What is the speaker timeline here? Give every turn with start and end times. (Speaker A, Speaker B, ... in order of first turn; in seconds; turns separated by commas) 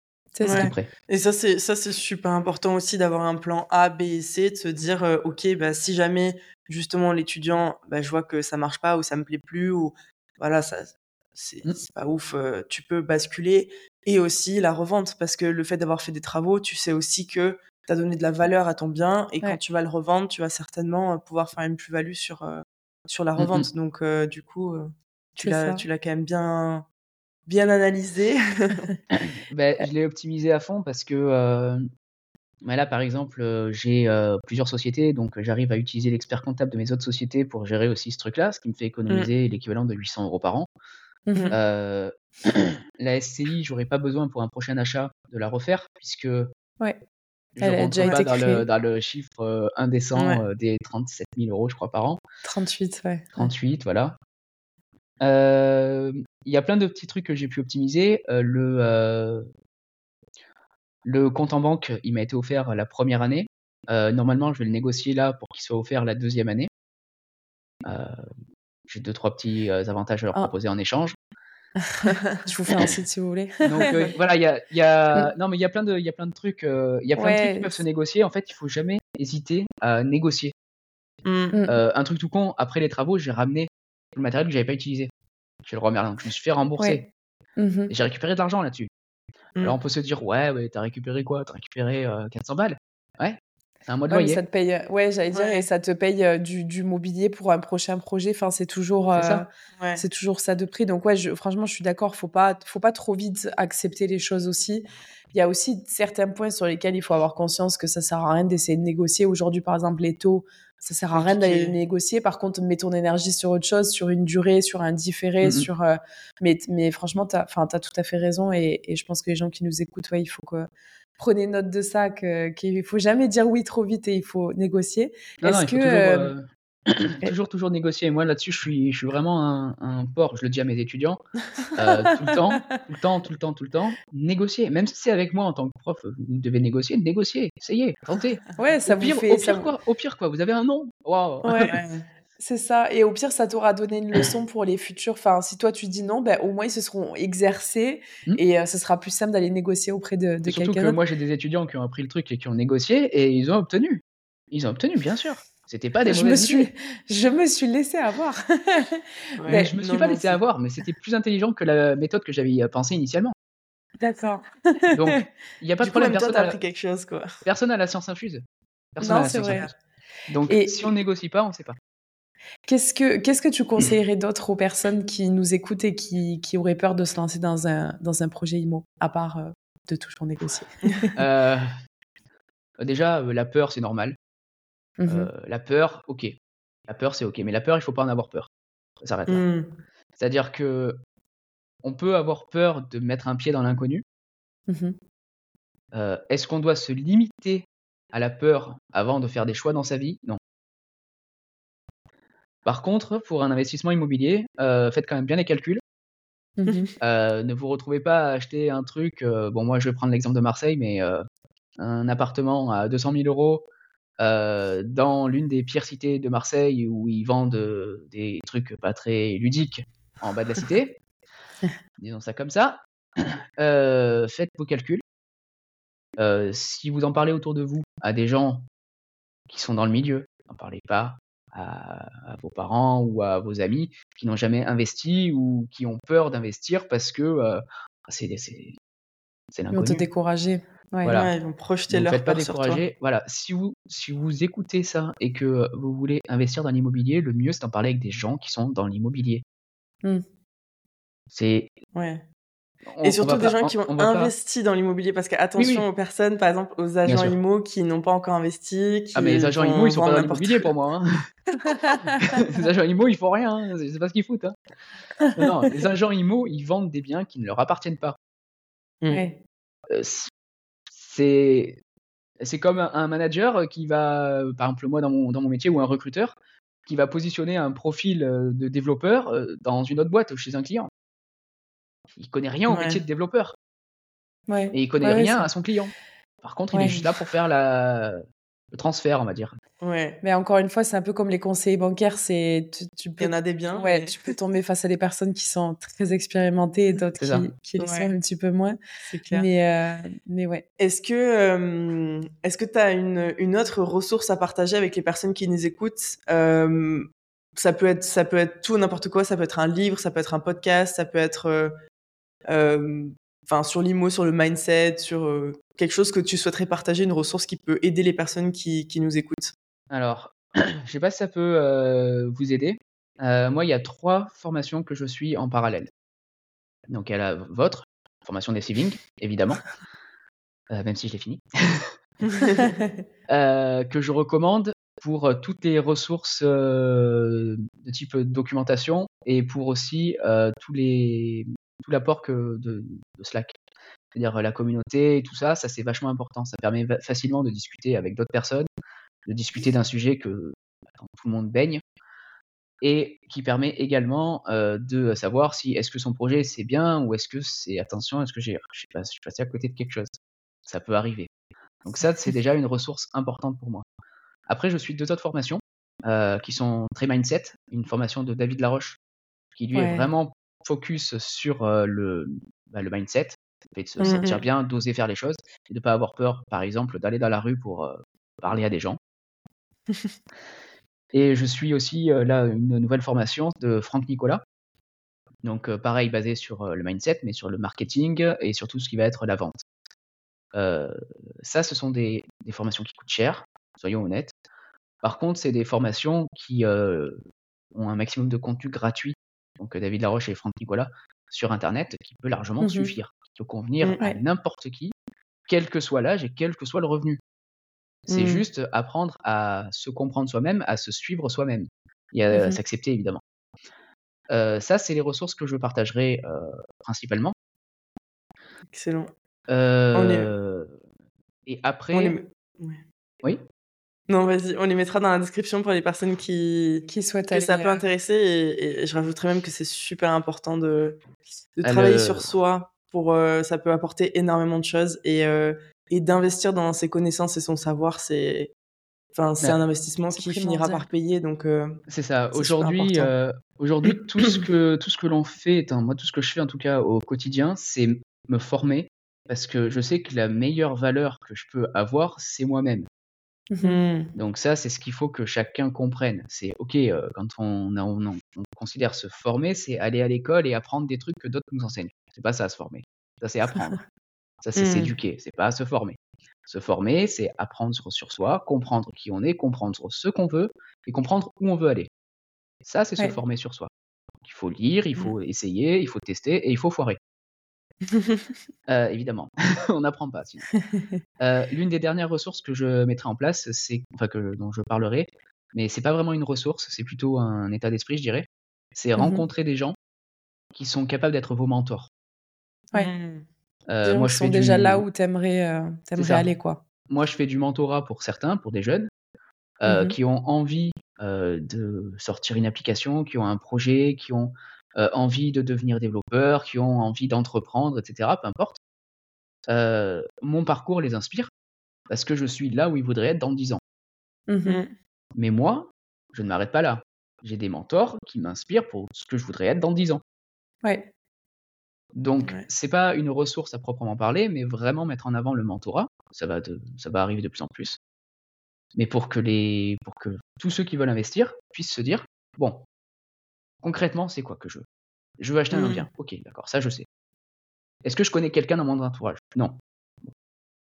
Speaker A: 0.3-0.7, Speaker B: 0.4-26.9, Speaker C: 0.5-0.9, Speaker C: 23.4-23.7, Speaker A: 25.4-25.9, Speaker B: 27.5-28.9, Speaker C: 29.1-31.8, Speaker C: 32.6-40.7, Speaker A: 41.3-41.6, Speaker C: 41.5-46.5, Speaker C: 47.6-52.2, Speaker A: 47.6-48.6, Speaker B: 50.1-50.4, Speaker A: 52.4-53.5, Speaker C: 53.4-54.2, Speaker C: 55.2-59.5, Speaker C: 61.0-66.7, Speaker C: 67.8-68.2, Speaker C: 68.9-71.2, Speaker A: 71.9-73.7, Speaker C: 73.6-80.5, Speaker B: 73.8-74.1, Speaker A: 77.2-77.8, Speaker B: 81.2-81.6, Speaker A: 81.5-81.8, Speaker C: 81.7-85.1, Speaker C: 85.6-87.0, Speaker A: 86.8-87.1, Speaker A: 87.6-87.9, Speaker C: 87.9-88.9, Speaker C: 89.6-94.4, Speaker A: 94.1-126.3, Speaker B: 95.3-95.7, Speaker C: 99.1-99.4, Speaker B: 99.8-100.0, Speaker B: 111.1-111.8, Speaker C: 115.4-115.7, Speaker C: 125.4-131.2, Speaker C: 131.8-141.8, Speaker A: 132.0-132.8, Speaker A: 138.6-139.7, Speaker A: 141.4-141.8, Speaker B: 141.6-142.1, Speaker A: 142.4-151.0, Speaker C: 150.5-156.7, Speaker A: 156.0-159.7, Speaker B: 159.4-160.4, Speaker C: 159.5-163.3, Speaker A: 164.0-165.2, Speaker C: 164.9-166.6, Speaker B: 165.8-167.4, Speaker C: 167.4-168.4, Speaker C: 168.9-169.7, Speaker A: 169.0-169.7, Speaker B: 169.0-169.7, Speaker C: 170.3-171.8, Speaker A: 170.5-170.9, Speaker A: 172.7-181.1, Speaker C: 181.2-181.7, Speaker C: 182.8-184.2, Speaker A: 185.0-185.3, Speaker C: 185.1-186.3, Speaker C: 186.9-188.5, Speaker C: 189.0-189.4, Speaker B: 189.3-189.8, Speaker C: 190.2-191.0, Speaker C: 191.8-194.0, Speaker A: 194.7-195.0, Speaker C: 195.9-200.4, Speaker C: 202.7-205.8, Speaker A: 206.6-206.9, Speaker C: 207.0-211.2, Speaker C: 211.8-213.7, Speaker C: 214.2-221.0, Speaker C: 222.0-225.0, Speaker C: 226.2-228.7, Speaker C: 229.5-238.8, Speaker C: 239.5-240.1, Speaker A: 239.7-241.2, Speaker C: 241.0-241.3, Speaker B: 241.1-242.8, Speaker C: 241.9-249.4, Speaker C: 251.3-251.7, Speaker B: 251.9-252.2, Speaker C: 252.9-254.3, Speaker B: 253.0-260.7, Speaker C: 255.6-255.9, Speaker C: 257.1-257.4, Speaker C: 259.1-261.1, Speaker A: 261.6-262.1, Speaker C: 262.2-264.6, Speaker C: 265.4-268.2, Speaker A: 269.1-269.4, Speaker C: 269.9-270.3, Speaker C: 270.9-271.8, Speaker C: 272.4-276.4, Speaker C: 276.9-280.9, Speaker C: 282.1-283.6, Speaker B: 282.7-283.0, Speaker A: 284.5-285.5, Speaker C: 284.7-288.2, Speaker A: 286.7-287.0, Speaker C: 288.7-289.6, Speaker B: 289.8-290.2, Speaker A: 290.2-298.8, Speaker B: 293.2-294.4, Speaker C: 297.2-297.5, Speaker B: 297.8-298.1, Speaker B: 299.0-299.5, Speaker A: 299.3-300.6, Speaker B: 300.8-311.8, Speaker B: 312.5-319.5, Speaker C: 319.9-325.9, Speaker C: 326.9-329.6, Speaker C: 330.7-331.9, Speaker C: 333.3-343.6, Speaker C: 344.1-348.7, Speaker C: 349.3-351.8, Speaker C: 352.8-360.1, Speaker C: 360.7-361.3, Speaker C: 361.9-363.9, Speaker C: 364.5-369.0, Speaker C: 369.6-379.0, Speaker A: 369.7-370.1, Speaker A: 374.0-374.3, Speaker B: 374.0-374.4, Speaker C: 381.1-384.4, Speaker C: 385.4-389.6, Speaker C: 390.5-394.3, Speaker C: 395.0-397.2, Speaker C: 397.7-404.9, Speaker A: 402.6-402.9, Speaker C: 405.5-407.2, Speaker C: 408.1-413.2, Speaker B: 408.1-408.4, Speaker A: 412.3-412.6, Speaker C: 414.3-417.3, Speaker B: 418.7-419.1, Speaker C: 419.5-420.7, Speaker B: 419.9-420.3, Speaker C: 421.5-422.2, Speaker B: 421.9-422.8, Speaker B: 424.1-431.0, Speaker A: 426.9-427.9, Speaker B: 431.6-438.5, Speaker C: 431.6-432.3, Speaker B: 439.1-441.8, Speaker A: 440.1-440.9, Speaker C: 441.9-452.9, Speaker B: 442.3-443.1, Speaker B: 443.9-444.4, Speaker A: 453.5-453.8, Speaker B: 453.6-454.1, Speaker C: 454.2-463.8, Speaker C: 464.4-471.9, Speaker B: 464.6-464.9, Speaker C: 472.6-473.7, Speaker C: 474.2-477.0, Speaker B: 477.9-478.2, Speaker C: 478.7-480.4, Speaker A: 480.5-480.9, Speaker C: 481.2-489.8, Speaker A: 489.0-489.3, Speaker C: 490.5-491.9, Speaker B: 492.7-493.3, Speaker C: 493.7-494.8, Speaker A: 493.8-496.6, Speaker C: 496.0-496.3, Speaker C: 496.9-498.9, Speaker C: 499.6-508.6, Speaker A: 499.6-500.0, Speaker C: 509.5-511.3, Speaker C: 511.9-513.6, Speaker A: 514.3-514.6, Speaker B: 514.5-514.8, Speaker C: 515.2-520.0, Speaker A: 520.6-520.9, Speaker C: 522.0-527.8, Speaker C: 528.8-532.6, Speaker C: 533.6-534.6, Speaker C: 535.2-536.9, Speaker B: 535.5-535.9, Speaker C: 537.8-540.1